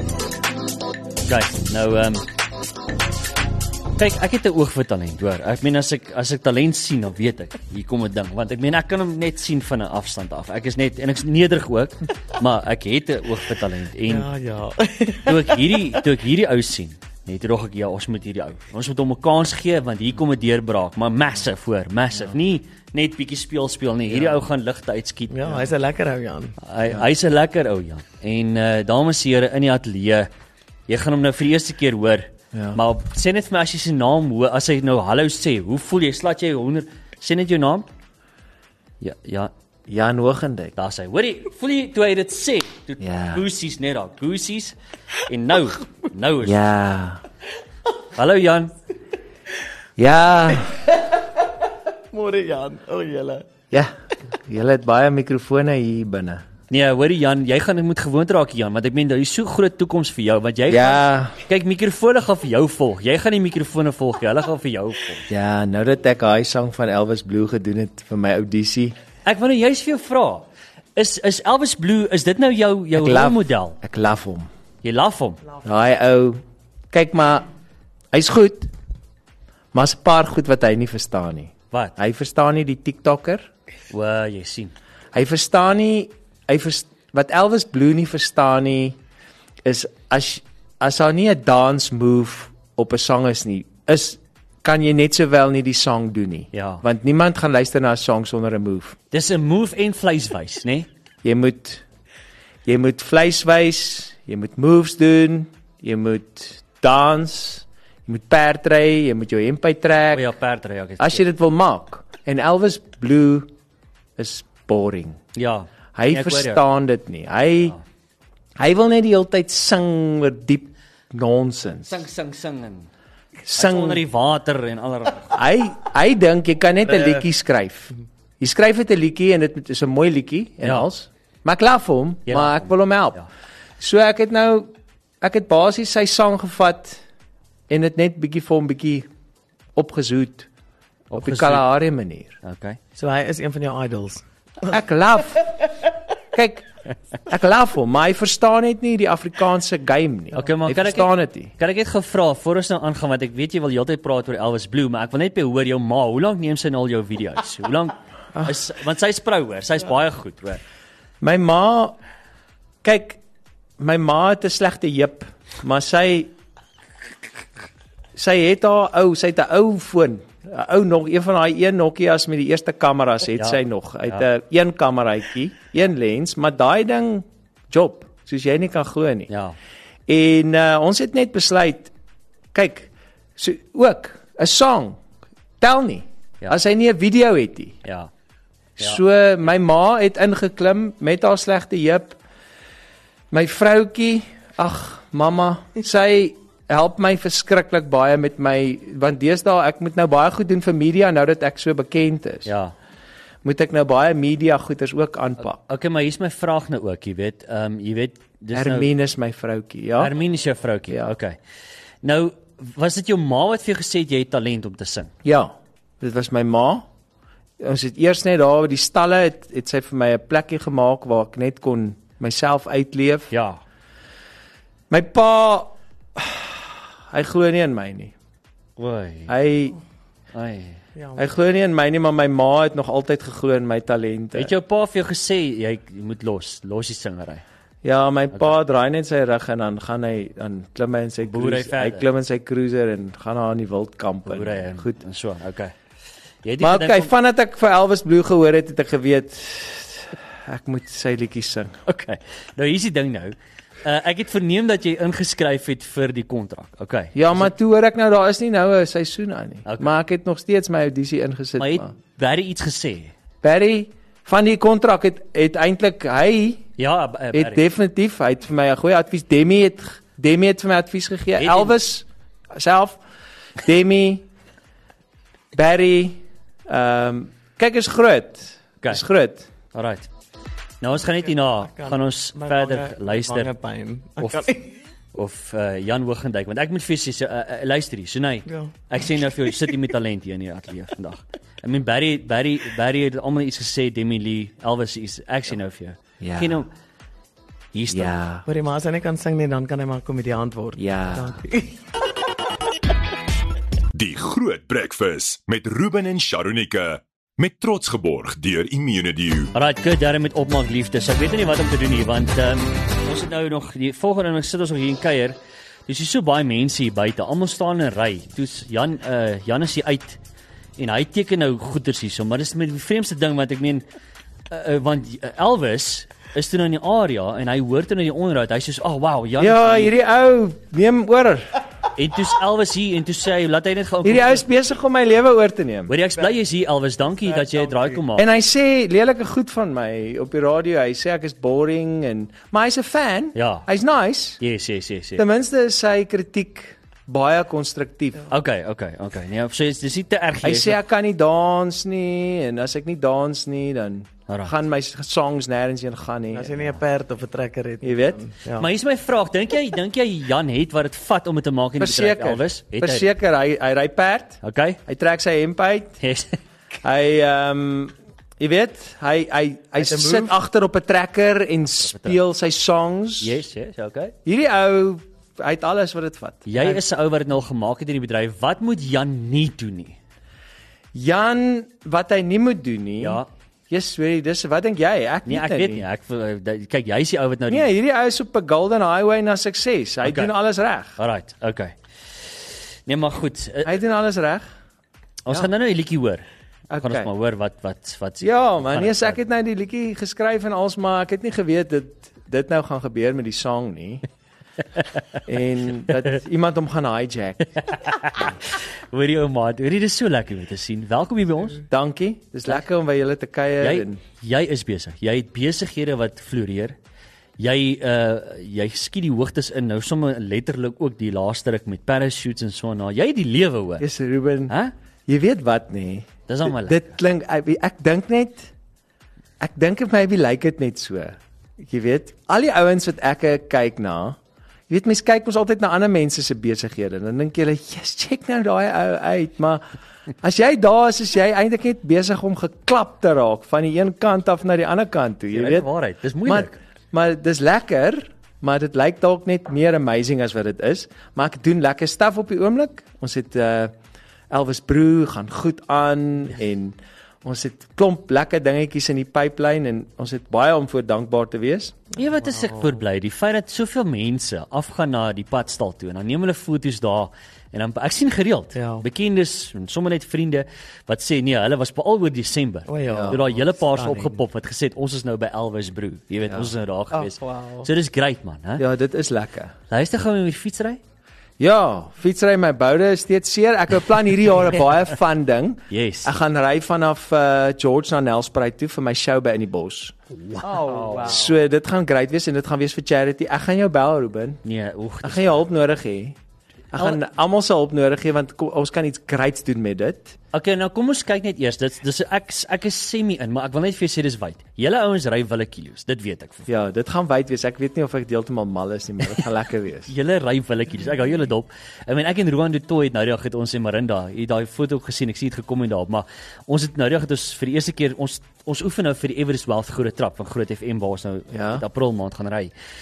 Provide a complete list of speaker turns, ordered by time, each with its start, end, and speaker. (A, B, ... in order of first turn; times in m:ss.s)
0:01.3-0:02.2 A
0:04.0-0:14.3 A
0:14.1-0:16.0 B
0:15.2-0:25.6 A
0:24.1-0:24.4 C
0:25.3-0:26.6 B
0:26.6-0:30.3 A
0:30.9-0:37.9 A
0:32.5-0:32.8 C
0:39.0-0:39.5 A
0:39.9-0:40.7 C
0:40.8-0:44.8 A
0:43.0-0:43.4 C
0:45.3-0:46.6 A
0:46.4-0:47.2 C
0:48.2-0:48.7 A
0:50.0-0:50.7 C
0:52.1-0:53.5 B
0:53.7-0:56.4 C
0:56.7-1:05.2 A
1:00.7-1:01.4 C
1:05.3-1:08.9 C
1:09.2-1:13.8 A
1:13.0-1:14.5 C
1:14.8-1:15.4 A
1:15.6-1:16.4 C
1:16.9-1:17.5 C
1:18.1-1:18.7 C
1:19.7-1:23.5 C
1:21.7-1:22.0 A
1:23.9-1:24.7 A
1:25.1-1:29.0 C
1:29.6-1:39.0 C
1:36.5-1:36.8 A
1:39.1-1:40.9 A
1:41.2-1:41.8 C
1:42.6-1:50.2 C
1:50.1-1:51.2 A
1:51.0-1:53.5 C
1:54.2-1:55.2 C
1:55.3-1:56.6 A
1:55.9-1:57.8 C
1:58.6-2:02.0 C
2:01.8-2:02.9 A
2:03.4-2:04.0 C
2:03.5-2:05.3 A
2:05.3-2:13.2 C
2:12.3-2:13.3 A
2:13.8-2:14.7 C
2:15.2-2:17.0 C
2:17.7-2:19.1 C
2:19.8-2:20.5 C
2:21.1-2:21.7 A
2:21.1-2:22.4 C
2:22.4-2:22.8 A
2:23.0-2:24.2 B
2:24.7-2:25.5 C
2:26.3-2:26.7 C
2:27.2-2:31.5 C
2:30.3-2:40.6 A
2:41.2-2:42.0 C
2:42.8-2:43.2 C
2:43.8-2:46.3 C
2:48.1-2:59.3 C
2:53.4-2:54.2 A
2:59.3-2:59.6 A
3:00.1-3:01.9 C
3:02.5-3:05.0 C
3:05.6-3:07.8 C
3:07.8-3:08.1 A
3:08.8-3:12.2 C
3:13.3-3:22.5 C
3:22.4-3:22.7 A
3:23.4-3:25.6 C
3:25.6-3:28.9 A
3:28.5-3:30.1 C
3:30.0-3:31.4 A
3:32.0-3:35.1 A
3:35.2-3:36.9 C
3:37.6-3:43.3 C
3:43.3-3:43.6 A
3:44.9-3:48.1 C
3:48.8-3:49.3 A
3:49.3-3:49.8 C
3:50.3-3:50.8 A
3:51.2-3:54.5 C
3:54.3-3:57.4 A
3:57.8-4:05.0 C
4:01.2-4:02.0 A
4:04.2-4:05.7 A
4:06.4-4:07.1 A
4:06.6-4:11.8 C
4:11.9-4:17.5 A
4:17.1-4:21.9 C
4:19.6-4:19.9 A
4:21.6-4:23.1 A
4:23.4-4:26.6 C
4:26.8-4:27.6 A
4:27.3-4:33.0 C
4:31.4-4:31.8 A
4:33.6-4:34.2 C
4:35.5-4:39.5 C
4:39.7-4:40.1 A
4:40.8-4:43.5 A
4:41.6-4:44.8 B
4:44.2-4:44.5 A
4:45.1-4:56.7 A
4:48.5-4:48.7 B
4:56.2-4:56.6 C
4:57.7-4:58.2 A
4:57.9-4:58.4 C
4:58.4-5:01.8 B
5:00.8-5:01.4 C
5:03.9-5:09.5 D
5:09.5-5:20.2 A
5:20.8-5:23.8 A
5:24.5-5:29.9 A
5:29.4-5:31.5 C
5:32.0-5:34.4 A
5:34.0-5:35.9 C
5:35.9-5:38.3 A
5:37.3-5:38.0 B
5:38.1-5:44.4 C
5:43.3-5:43.7 A
5:44.4-5:45.2 A
5:45.2-5:48.3 C
5:48.3-5:50.8 A
5:50.4-5:56.7 C
5:54.3-5:54.5 A
5:56.3-5:58.7 B
5:57.8-5:58.2 C
5:58.6-6:03.1 A
6:01.8-6:06.0 C
6:04.4-6:04.8 A
6:06.0-6:06.4 A
6:06.8-6:13.4 C
6:09.8-6:10.3 B
6:11.8-6:12.2 A
6:13.2-6:14.1 A
6:14.2-6:16.8 C
6:16.4-6:20.0 A
6:20.9-6:25.9 C
6:23.0-6:23.3 A
6:25.2-6:27.7 A
6:27.5-6:31.0 C
6:30.0-6:30.3 A
6:31.0-6:31.8 A
6:32.9-6:33.8 A
6:33.6-6:34.4 C
6:35.2-6:36.2 A
6:36.7-6:37.1 C
6:36.8-6:39.2 A
6:38.2-6:44.0 C
6:45.2-6:47.6 C
6:47.6-6:51.6 A
6:51.7-6:54.0 C
6:53.6-6:56.8 A
6:57.4-7:03.9 A
7:03.8-7:04.6 C
7:05.1-7:08.5 C
7:06.3-7:06.9 A
7:09.4-7:14.2 C
7:14.7-7:19.6 C
7:20.2-7:25.7 C
7:25.3-7:26.6 A
7:26.2-7:33.7 C
7:34.3-7:41.8 C
7:42.0-7:58.6 A
7:48.6-7:48.8 B
7:52.7-7:54.2 B
7:52.9-7:53.2 C
7:56.9-7:57.7 B
7:58.6-7:59.6 C
7:59.7-8:00.8 A
8:01.4-8:10.0 C
8:05.7-8:06.1 A
8:10.2-8:11.2 A
8:10.4-8:11.4 B
8:10.9-8:14.4 C
8:14.4-8:15.3 A
8:15.0-8:16.2 C
8:16.7-8:20.2 C
8:20.3-8:26.5 A
8:26.5-8:29.9 C
8:29.9-8:42.5 A
8:41.3-8:41.6 C